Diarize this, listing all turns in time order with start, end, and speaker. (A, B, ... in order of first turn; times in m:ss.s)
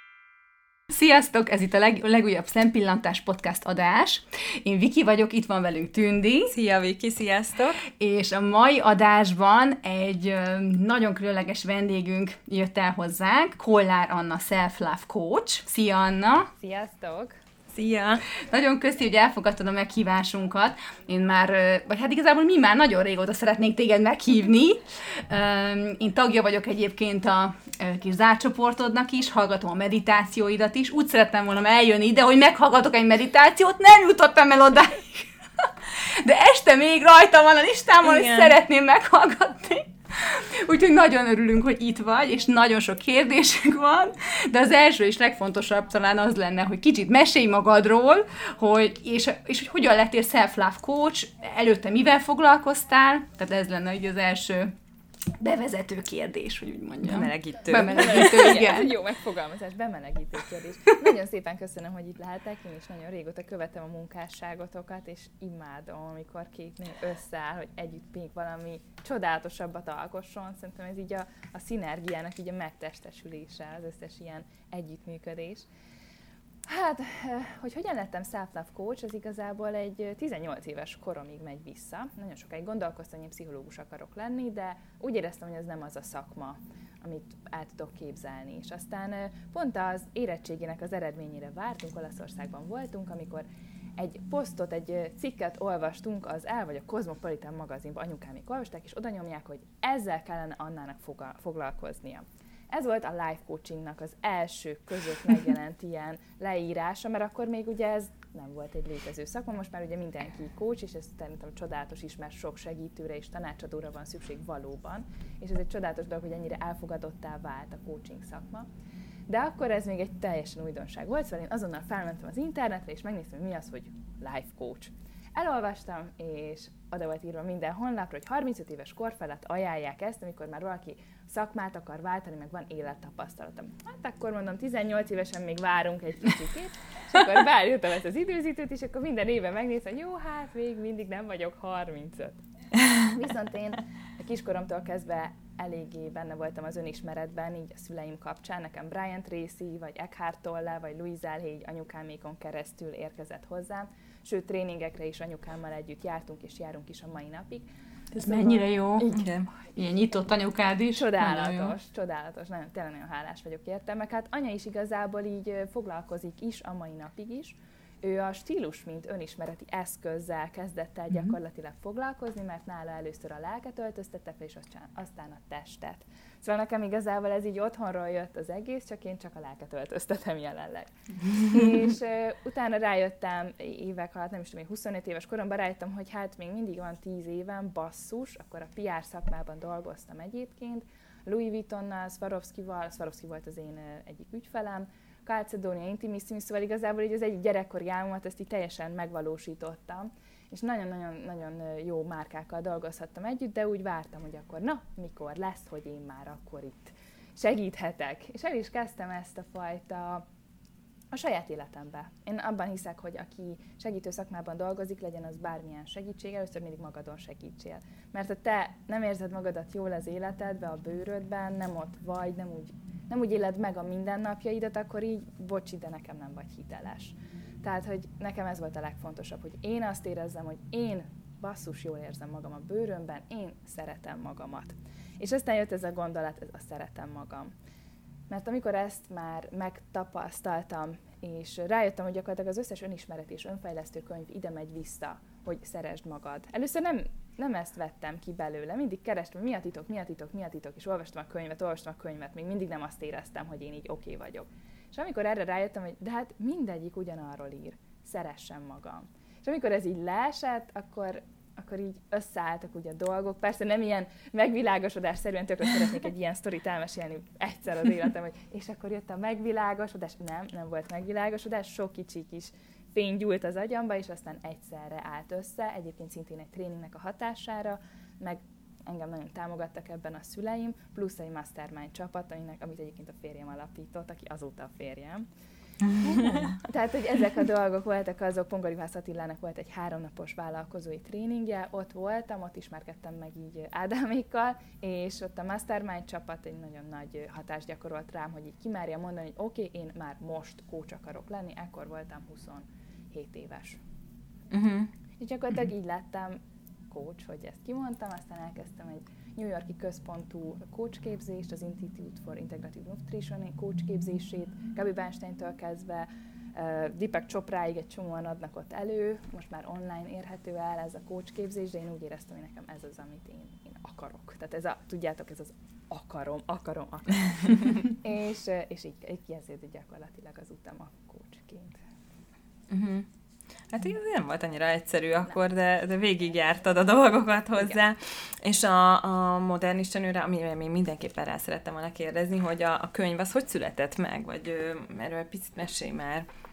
0:00.9-0:06.5 A
0:06.5-0:07.8 B
0:07.8-0:16.5 A
0:16.6-0:17.4 C
0:17.7-0:18.2 B
0:18.4-0:54.7 A
0:38.0-0:38.6 B
0:55.4-0:58.9 A
0:57.0-0:58.7 B
0:57.8-1:15.7 C
1:16.7-1:33.5 C
1:34.0-1:58.7 C
1:59.3-2:22.4 C
2:23.0-2:37.7 C
2:38.1-2:39.1 A
2:38.2-2:39.2 C
2:39.1-2:39.5 B
2:39.8-2:41.8 A
2:40.9-3:30.2 C
3:31.1-3:57.5 C
3:58.3-4:45.3 C
4:45.9-4:46.6 B
4:46.0-5:03.8 C
5:04.5-5:04.9 B
5:05.2-5:31.8 C
5:32.7-5:33.1 B
5:33.7-5:46.3 B